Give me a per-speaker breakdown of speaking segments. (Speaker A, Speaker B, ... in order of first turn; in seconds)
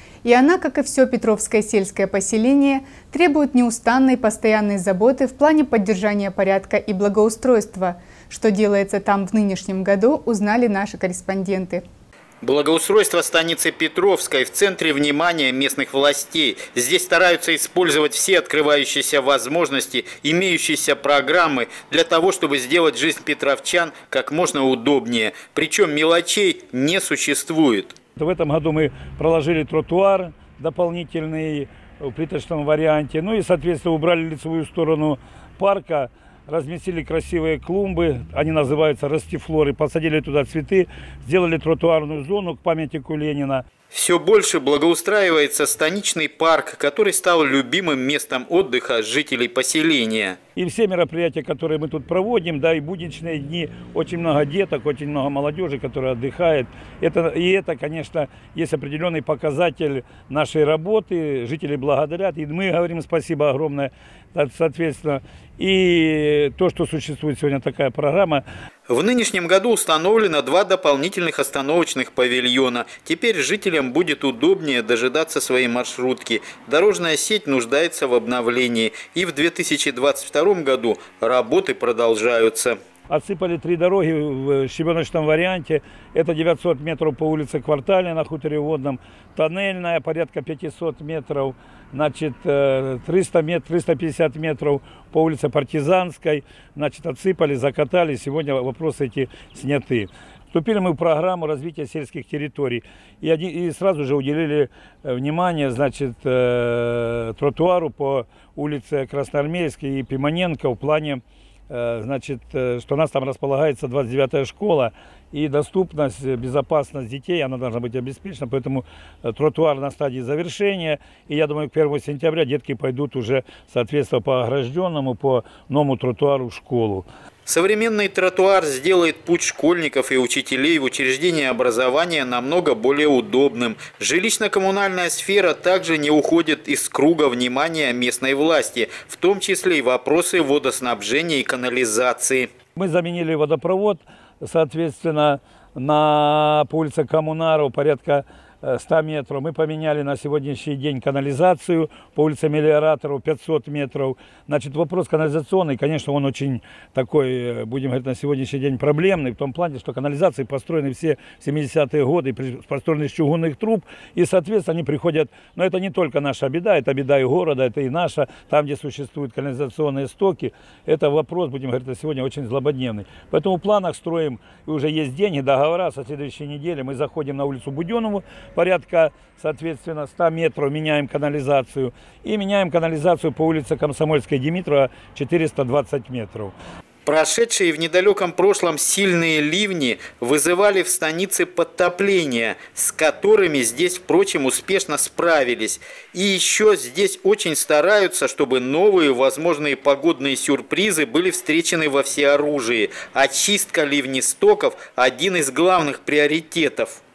Speaker A: 0.2-11.8
Speaker B: 12.4-27.9, 43.9-50.4, 68.9-82.8, 127.5-142.5, 187.0-207.0
Speaker C: 28.2-43.6, 50.5-68.4, 83.1-127.0, 142.8-186.5